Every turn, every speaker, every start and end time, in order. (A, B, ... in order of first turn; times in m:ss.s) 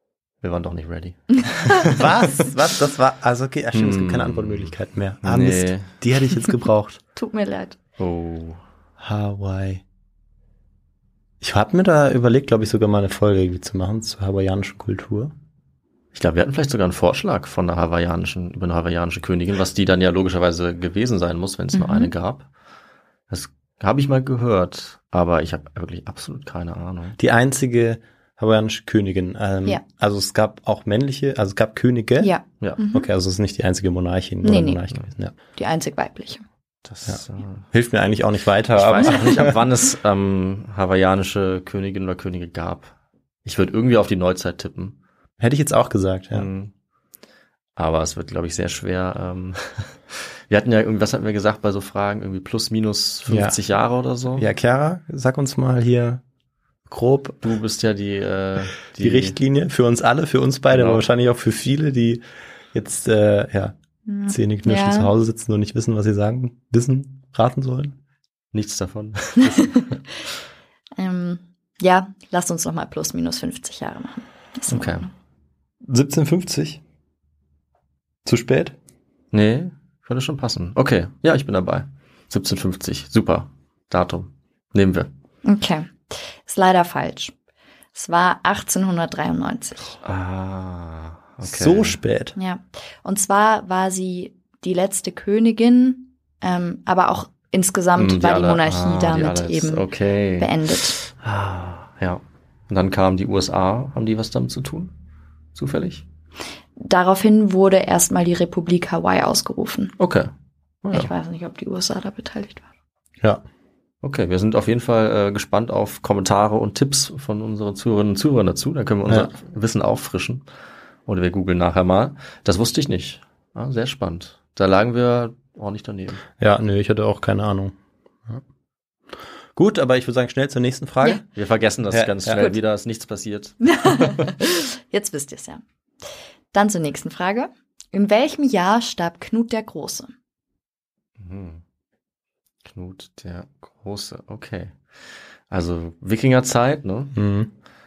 0:00.4-0:02.1 A
0:01.8-0:07.0 B
0:03.7-0:05.9 A
0:07.2-0:07.8 C
0:08.0-0:08.6 A
0:09.0-0:09.8 B
0:11.4-0:15.3 B
0:16.1-0:22.5 A
0:21.7-0:22.1 C
0:23.3-0:27.2 A
0:27.2-0:32.3 B
0:32.2-0:33.1 C
0:32.9-0:35.3 B
0:34.4-0:34.8 C
0:35.6-0:36.4 C
0:36.9-0:37.7 A
0:37.7-0:39.6 B
0:38.8-0:42.9 A
0:43.4-0:45.0 A
0:45.4-0:46.5 B
0:46.3-0:46.7 A
0:47.8-0:54.5 A
0:53.3-0:53.6 B
0:54.3-0:56.2 B
0:56.9-0:57.4 B
0:57.4-0:59.4 A
0:59.0-1:03.8 B
1:00.7-1:01.0 A
1:04.1-1:05.1 C
1:04.3-1:08.0 B
1:08.5-1:09.9 A
1:09.4-1:10.0 C
1:11.0-1:15.1 C
1:14.7-1:15.1 A
1:15.8-1:16.8 B
1:18.2-1:18.8 B
1:19.3-1:25.1 A
1:25.4-1:27.3 C
1:27.9-1:29.8 C
1:30.0-1:32.0 A
1:31.4-1:32.4 B
1:32.4-1:39.9 C
1:38.0-1:44.9 A
1:40.4-1:41.0 C
1:45.6-1:46.0 A
1:46.8-1:50.0 C
1:50.0-1:50.3 A
1:50.8-1:51.1 A
1:50.9-1:52.7 C
1:54.0-2:00.4 A
2:01.1-2:06.2 A
2:06.4-2:07.8 B
2:09.6-2:11.2 B
2:11.3-2:14.2 A
2:11.9-2:12.4 B
2:13.7-2:15.6 C
2:16.5-2:20.1 C
2:21.2-2:21.6 A
2:22.6-2:24.8 A
2:25.5-2:27.1 A
2:27.1-2:27.5 B